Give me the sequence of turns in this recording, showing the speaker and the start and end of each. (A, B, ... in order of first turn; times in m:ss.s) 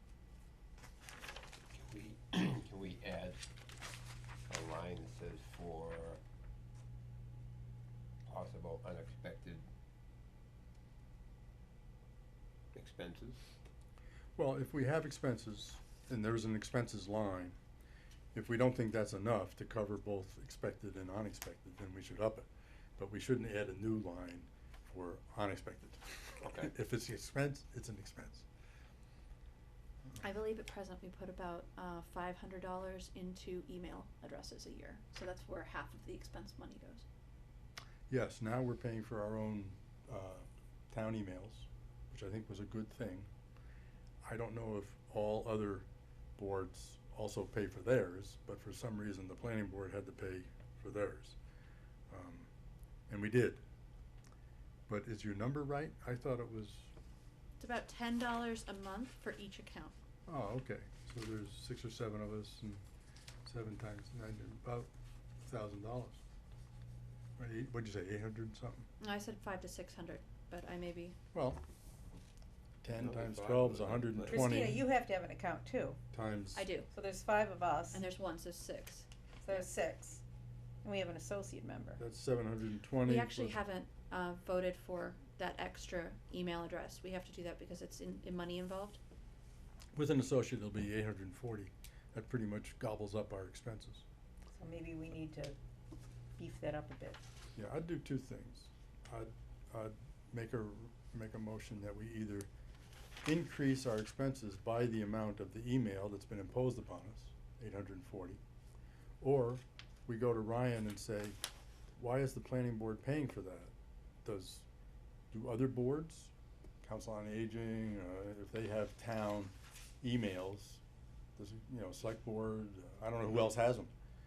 0:01.7-0:03.4 A
0:04.5-0:06.2 A
0:08.2-0:09.7 A
0:12.7-0:13.4 A
0:14.4-0:17.6 B
0:18.3-0:28.4 B
0:26.4-0:26.7 A
0:30.2-0:37.0 C
0:38.1-0:43.3 B
0:44.2-0:51.4 B
0:52.1-0:52.5 B
0:53.1-0:53.6 B
0:54.9-0:56.9 B
0:57.6-1:00.0 C
1:00.3-1:02.8 B
1:03.4-1:04.9 B
1:05.4-1:06.2 B
1:07.4-1:08.8 B
1:09.0-1:11.2 C
1:11.3-1:11.6 B
1:12.8-1:14.8 B
1:12.9-1:14.7 A
1:14.3-1:16.0 D
1:16.1-1:16.7 B
1:16.5-1:16.9 C
1:16.9-1:18.0 D
1:17.9-1:19.1 C
1:19.4-1:20.2 D
1:20.8-1:22.0 D
1:22.0-1:23.6 B
1:23.0-1:29.0 C
1:29.9-1:34.0 B
1:34.5-1:35.6 D
1:36.4-1:37.2 D
1:37.6-1:42.5 B
1:43.2-1:48.4 B
1:49.2-1:51.4 B
1:52.0-1:53.7 B
1:54.2-1:54.6 B
1:55.3-1:56.3 B
1:56.8-2:00.8 B
2:01.4-2:03.9 B